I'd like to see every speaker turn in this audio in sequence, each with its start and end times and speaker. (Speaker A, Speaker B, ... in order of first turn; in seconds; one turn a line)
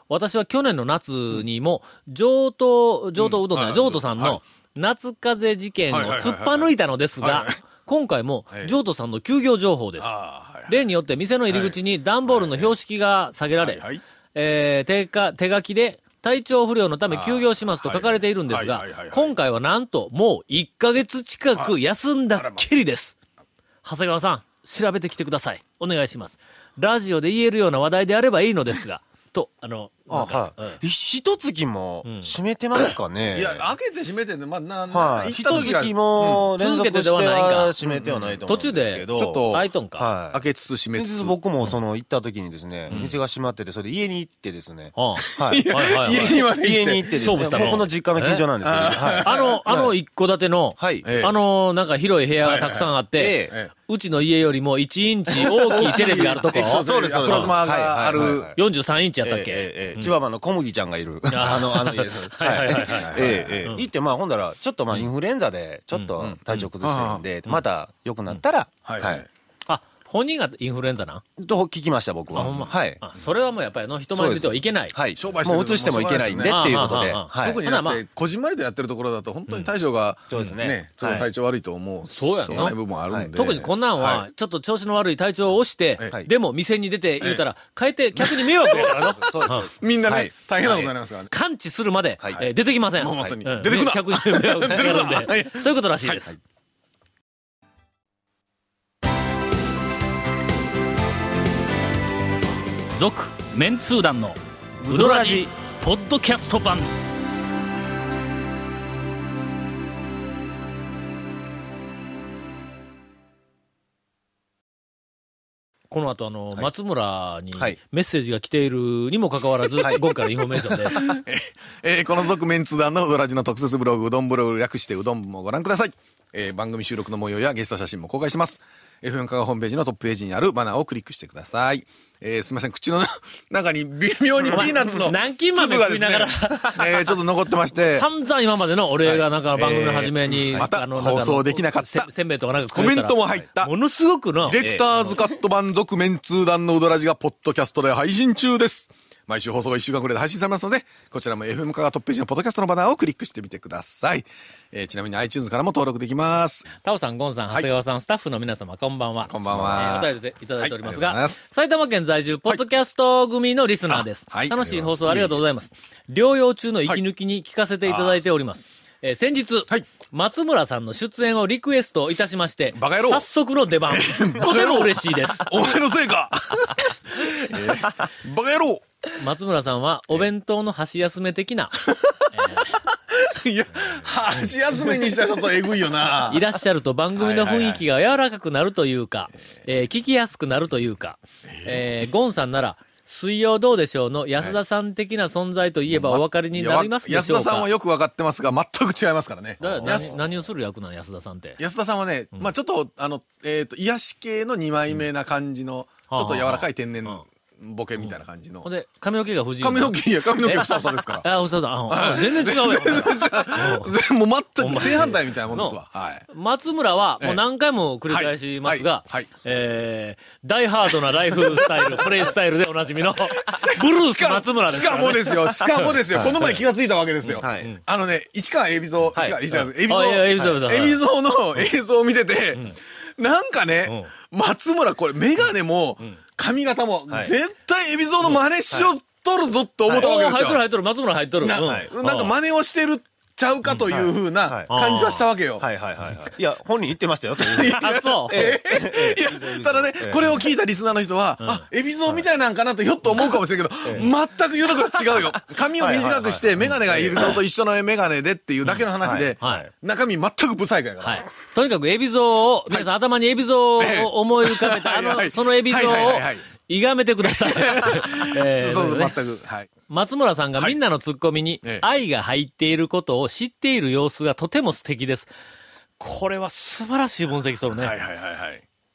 Speaker A: 0.1-10.1
Speaker B: 3.2-4.4
Speaker B: 5.9-7.5
Speaker B: 10.0-10.8
Speaker A: 10.7-23.1
Speaker B: 11.5-12.7
Speaker B: 13.6-14.0
Speaker B: 17.1-19.3
Speaker B: 22.3-22.6
Speaker A: 23.8-30.8
Speaker C: 30.1-33.7
Speaker A: 32.0-32.3
Speaker B: 33.3-36.5
Speaker C: 34.9-40.4
Speaker A: 36.5-37.7
Speaker B: 37.8-38.5
Speaker A: 38.5-40.1
Speaker B: 39.1-39.7
Speaker B: 40.3-41.4
Speaker C: 40.9-50.0
Speaker A: 42.9-43.1
Speaker A: 44.9-46.4
Speaker B: 45.2-47.9
Speaker A: 47.1-48.4
Speaker B: 48.6-49.6
Speaker A: 49.2-57.5
Speaker C: 50.8-51.0
Speaker B: 51.0-51.3
Speaker B: 52.4-52.9
Speaker C: 53.2-53.5
Speaker B: 55.4-58.5
Speaker C: 56.8-58.6
Speaker A: 58.5-60.1
Speaker C: 59.2-69.2
Speaker A: 61.3-63.8
Speaker B: 62.8-63.7
Speaker B: 66.2-67.2
Speaker B: 68.8-69.3
Speaker A: 69.7-71.2
Speaker C: 71.4-73.0
Speaker B: 72.3-72.7
Speaker A: 72.3-75.0
Speaker C: 74.1-77.6
Speaker B: 75.2-84.2
Speaker A: 76.4-78.0
Speaker A: 79.5-79.7
Speaker C: 80.3-81.3
Speaker A: 82.1-82.8
Speaker C: 82.5-83.3
Speaker A: 83.3-89.7
Speaker B: 88.2-91.3
Speaker C: 88.7-90.3
Speaker A: 90.6-96.3
Speaker C: 92.2-92.4
Speaker B: 92.3-96.3
Speaker C: 94.7-95.2
Speaker A: 102.9-104.4
Speaker C: 104.8-105.5
Speaker A: 104.9-106.9
Speaker A: 115.9-121.1
Speaker C: 119.8-120.0
Speaker B: 120.9-138.1
Speaker A: 134.5-137.2
Speaker A: 137.7-144.7
Speaker B: 139.0-142.1
Speaker B: 142.7-143.7
Speaker B: 144.3-156.7
Speaker C: 144.6-145.2
Speaker A: 156.8-175.5
Speaker B: 159.2-161.5
Speaker B: 163.9-165.4
Speaker B: 167.8-168.2
Speaker B: 172.7-173.3
Speaker B: 173.9-178.8
Speaker A: 179.2-181.8
Speaker B: 181.8-186.4
Speaker A: 182.3-182.8
Speaker A: 186.3-197.7
Speaker B: 187.2-187.8
Speaker B: 191.5-192.1
Speaker B: 195.9-200.2
Speaker A: 199.6-201.6
Speaker C: 199.6-199.9
Speaker B: 201.6-208.7
Speaker A: 206.1-207.2
Speaker A: 208.0-213.9
Speaker B: 209.6-211.2
Speaker B: 211.9-216.2
Speaker A: 214.6-226.6
Speaker B: 218.1-219.3
Speaker B: 220.9-221.7
Speaker B: 223.2-232.6
Speaker A: 227.2-227.8
Speaker C: 227.4-227.7
Speaker C: 229.1-229.4
Speaker A: 229.5-231.0
Speaker B: 233.2-240.6
Speaker A: 233.8-234.1
Speaker C: 237.1-237.3
Speaker A: 239.9-242.3
Speaker B: 241.4-245.6
Speaker C: 241.6-241.9
Speaker C: 243.8-244.7
Speaker A: 244.7-245.3
Speaker C: 245.6-250.4
Speaker B: 247.4-261.2
Speaker A: 247.7-248.6
Speaker A: 251.4-251.7
Speaker C: 253.8-254.1
Speaker C: 255.8-257.3
Speaker C: 259.0-259.6
Speaker A: 259.4-259.7
Speaker A: 261.0-269.2
Speaker B: 263.8-266.4
Speaker B: 267.2-269.7
Speaker A: 269.9-275.3
Speaker A: 276.0-278.0
Speaker B: 277.7-278.6